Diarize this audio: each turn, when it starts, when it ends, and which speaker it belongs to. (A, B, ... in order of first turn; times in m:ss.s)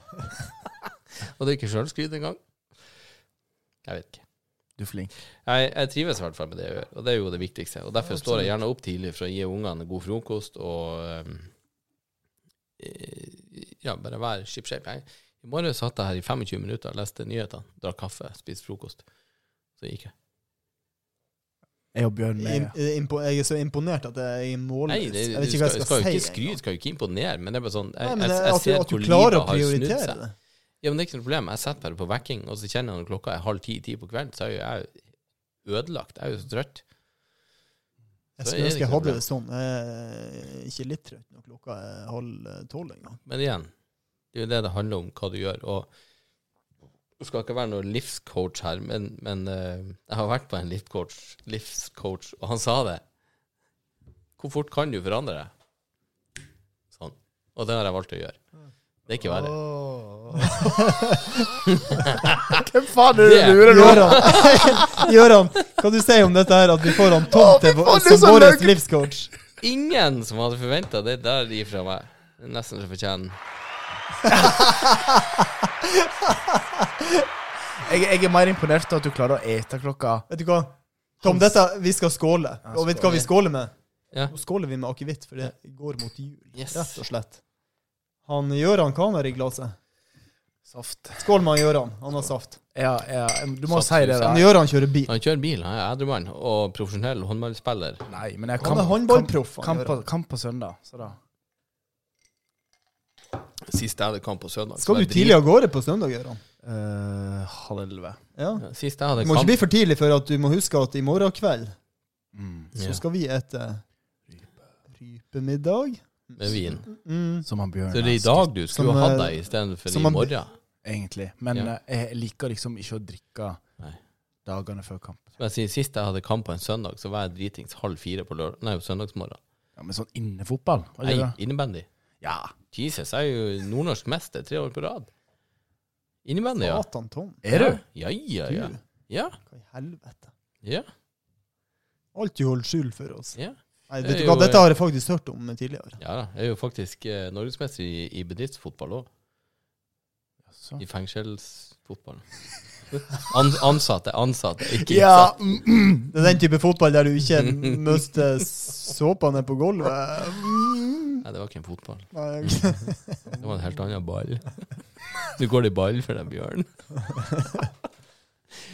0:01.2-0:02.4 A
0:03.8-0:04.2 A
0:04.8-0:05.1 B
0:05.4-0:11.5 A
0:12.8-0:19.0 A
0:19.8-0:20.1 A
0:21.9-0:22.7 B
0:22.4-0:26.6 C
0:24.9-0:30.2 A
0:28.0-0:30.3 C
0:30.8-0:35.1 A
0:35.6-0:36.8 A
0:38.4-0:43.2 C
0:38.4-0:39.2 A
0:43.3-0:43.7 A
0:44.3-0:45.9 A
0:47.2-0:53.0 A
0:54.4-0:55.5 A
0:56.9-0:58.4 A
0:59.1-0:59.6 A
0:59.4-1:01.5 C
1:01.6-1:02.6 A
1:02.5-1:05.1 B
1:03.2-1:04.8 A
1:03.6-1:09.3 C
1:07.1-1:08.8 B
1:09.6-1:13.4 A
1:14.3-1:15.3 C
1:15.8-1:16.8 C
1:17.8-1:20.3 B
1:20.3-1:23.7 C
1:21.2-1:21.5 B
1:22.7-1:23.3 B
1:24.3-1:27.4 C
1:26.6-1:27.0 A
1:28.2-1:29.8 C
1:30.7-1:31.2 B
1:31.2-1:32.6 C
1:32.7-1:34.5 B
1:33.7-1:34.4 A
1:34.2-1:35.1 C
1:35.1-1:38.0 A
1:38.1-1:41.2 B
1:38.6-1:40.0 C
1:43.7-1:45.4 A
1:44.8-1:46.4 C
1:46.6-1:48.2 B
1:48.4-1:51.8 C
1:48.6-1:49.6 A
1:52.3-1:52.7 B
1:52.8-1:53.0 A
1:52.8-1:53.8 C
1:54.9-1:57.5 C
1:56.4-1:56.9 A
1:57.4-1:58.5 B
1:57.9-2:00.6 A
1:58.7-2:00.4 C
2:00.8-2:03.6 B
2:04.4-2:05.4 B
2:05.4-2:09.4 A
2:09.8-2:11.4 B
2:11.0-2:11.9 A
2:12.2-2:12.5 B
2:12.7-2:15.1 A
2:16.2-2:16.8 A
2:16.6-2:17.4 C
2:17.4-2:17.8 B
2:17.5-2:19.4 A
2:18.5-2:18.8 C
2:19.4-2:20.3 C
2:20.6-2:20.9 A
2:22.1-2:23.4 C
2:23.4-2:24.7 A
2:23.9-2:26.0 C
2:26.0-2:29.1 A
2:30.5-2:30.8 B
2:30.8-2:32.2 A
2:32.9-2:35.4 A
2:34.8-2:36.2 B
2:36.1-2:41.2 C
2:37.5-2:37.8 A
2:41.2-2:42.6 A
2:42.1-2:43.4 C
2:43.4-2:44.7 A
2:45.3-2:46.7 A
2:47.1-2:47.7 C